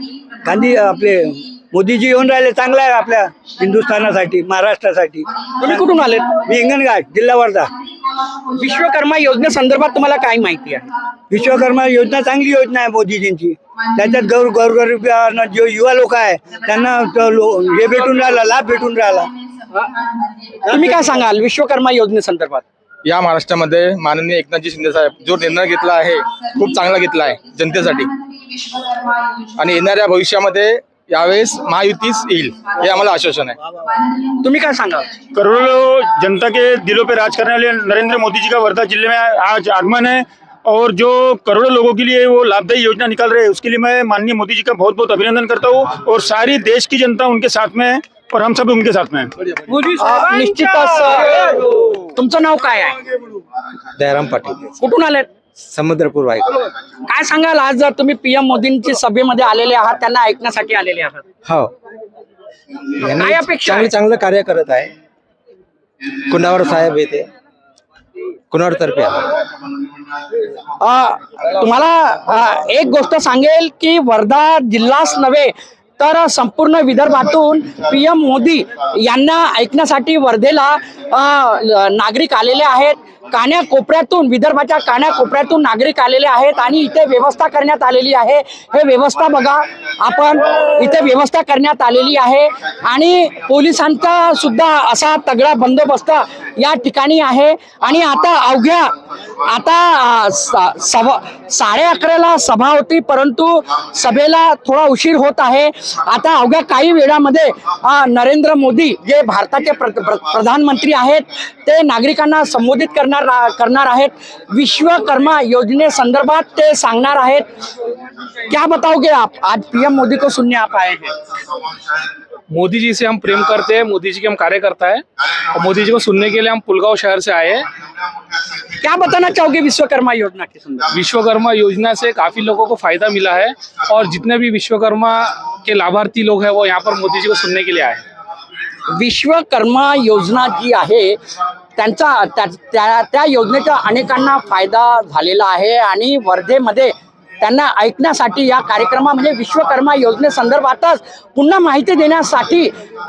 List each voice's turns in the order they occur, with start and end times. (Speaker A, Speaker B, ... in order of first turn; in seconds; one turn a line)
Speaker A: 0.4-5.7
Speaker B: 5.6-6.3
Speaker A: 6.3-7.7
Speaker B: 8.5-10.9
Speaker A: 11.3-19.3
Speaker B: 20.7-22.6
Speaker C: 23.1-28.1
Speaker C: 29.6-33.5
Speaker B: 34.3-35.1
Speaker D: 35.3-49.3
Speaker B: 49.7-53.0
Speaker E: 54.0-54.7
Speaker B: 54.8-55.3
Speaker E: 55.6-56.6
Speaker B: 57.0-61.2
Speaker E: 61.5-61.7
Speaker E: 63.0-64.9
Speaker B: 63.1-63.9
Speaker E: 66.2-67.3
Speaker E: 68.5-69.4
Speaker B: 70.8-117.5
Speaker B: 118.5-121.2
Speaker F: 122.5-127.7
Speaker B: 128.6-130.9
Speaker F: 130.9-138.0
Speaker B: 138.9-141.2
Speaker B: 141.8-152.7